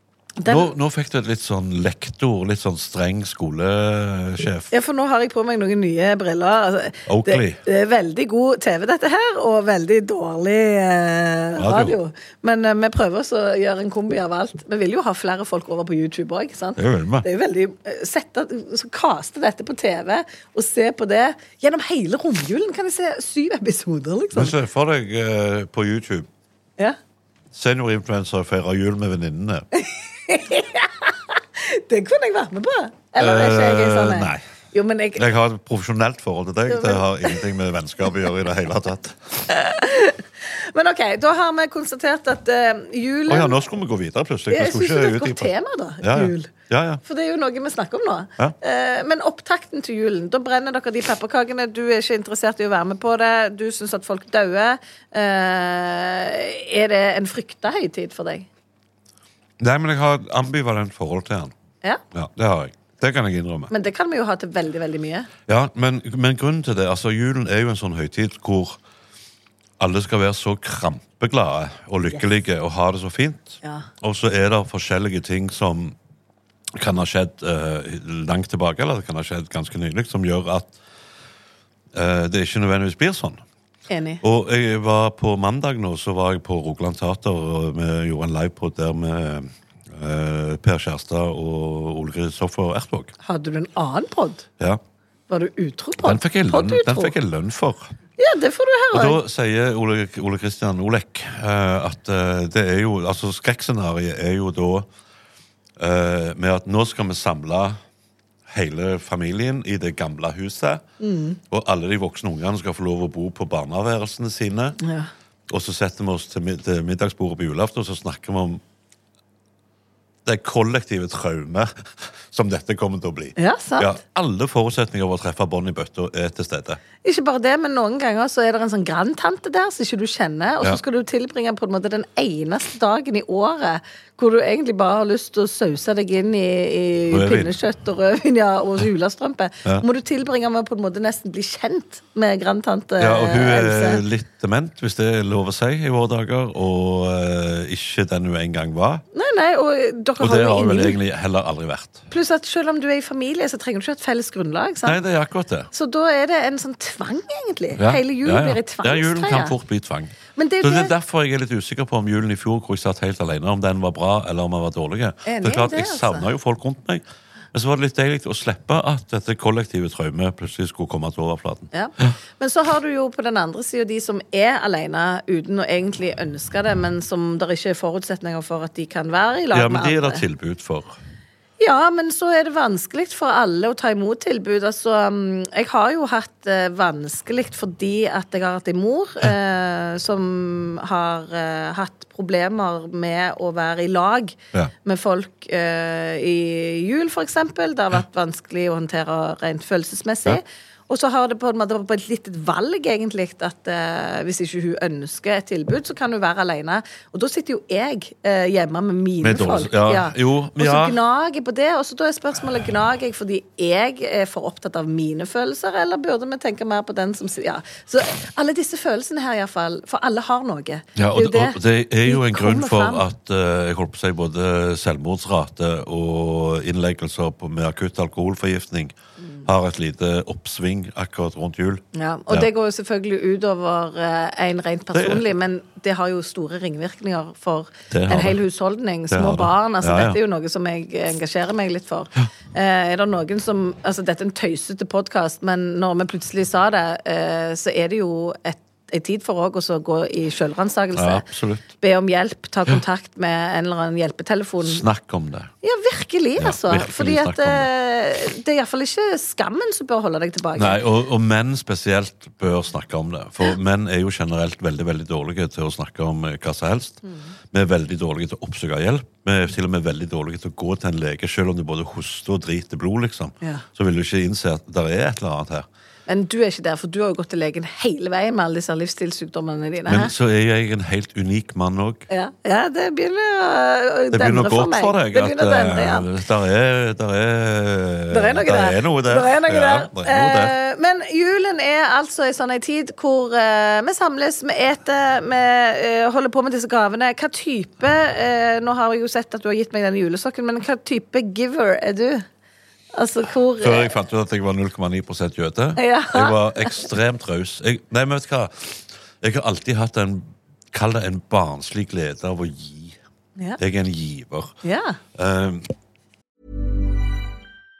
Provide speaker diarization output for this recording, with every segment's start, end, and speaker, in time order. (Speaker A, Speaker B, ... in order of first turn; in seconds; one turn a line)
Speaker A: 0.4-0.7
Speaker B: 0.5-4.7
Speaker A: 4.7-24.5
Speaker B: 7.1-7.6
Speaker B: 11.6-12.0
Speaker B: 16.8-17.2
Speaker B: 24.3-26.3
Speaker B: 27.5-29.7
Speaker A: 29.7-35.2
Speaker B: 33.1-34.4
Speaker B: 35.1-39.4
Speaker A: 36.7-37.4
Speaker A: 39.5-43.6
Speaker B: 43.3-47.0
Speaker A: 44.5-46.5
Speaker A: 47.0-58.5
Speaker B: 59.6-61.5
Speaker B: 62.1-63.7
Speaker A: 63.7-65.3
Speaker B: 65.5-68.8
Speaker B: 69.8-76.0
Speaker A: 73.6-73.9
Speaker B: 76.7-80.8
Speaker B: 81.9-83.4
Speaker A: 83.9-84.2
Speaker B: 84.2-93.1
Speaker A: 93.2-94.4
Speaker A: 95.3-97.1
Speaker B: 96.0-97.9
Speaker A: 98.2-99.2
Speaker B: 98.9-104.9
Speaker B: 105.8-107.8
Speaker B: 108.5-110.8
Speaker A: 111.0-111.4
Speaker B: 111.5-114.8
Speaker A: 114.8-115.1
Speaker B: 115.5-118.6
Speaker B: 120.2-126.8
Speaker A: 123.4-124.0
Speaker A: 127.0-144.0
Speaker B: 137.1-137.5
Speaker B: 143.0-149.0
Speaker A: 149.1-151.0
Speaker B: 150.2-152.1
Speaker A: 152.1-155.0
Speaker B: 154.8-155.7
Speaker A: 155.7-159.5
Speaker B: 157.8-172.1
Speaker A: 160.3-160.9
Speaker A: 165.2-166.3
Speaker A: 171.7-180.2
Speaker B: 179.5-180.9
Speaker A: 181.6-223.0
Speaker B: 209.2-211.0
Speaker B: 220.9-228.9
Speaker A: 229.2-229.4
Speaker B: 229.4-232.5
Speaker A: 231.9-251.2
Speaker B: 234.9-235.2
Speaker B: 237.9-238.4
Speaker B: 239.1-240.2
Speaker B: 250.9-251.7
Speaker A: 251.8-254.8
Speaker B: 254.6-255.5
Speaker A: 255.6-260.8
Speaker B: 256.4-257.7
Speaker B: 260.6-267.0
Speaker A: 267.0-267.3
Speaker B: 267.5-275.7
Speaker A: 276.1-280.1
Speaker B: 279.9-282.1
Speaker A: 282.1-286.1
Speaker B: 284.1-290.6
Speaker A: 288.1-302.2
Speaker A: 302.9-303.9
Speaker B: 303.6-313.0
Speaker A: 305.8-306.8
Speaker B: 313.6-314.6
Speaker A: 314.6-315.0
Speaker B: 315.1-315.7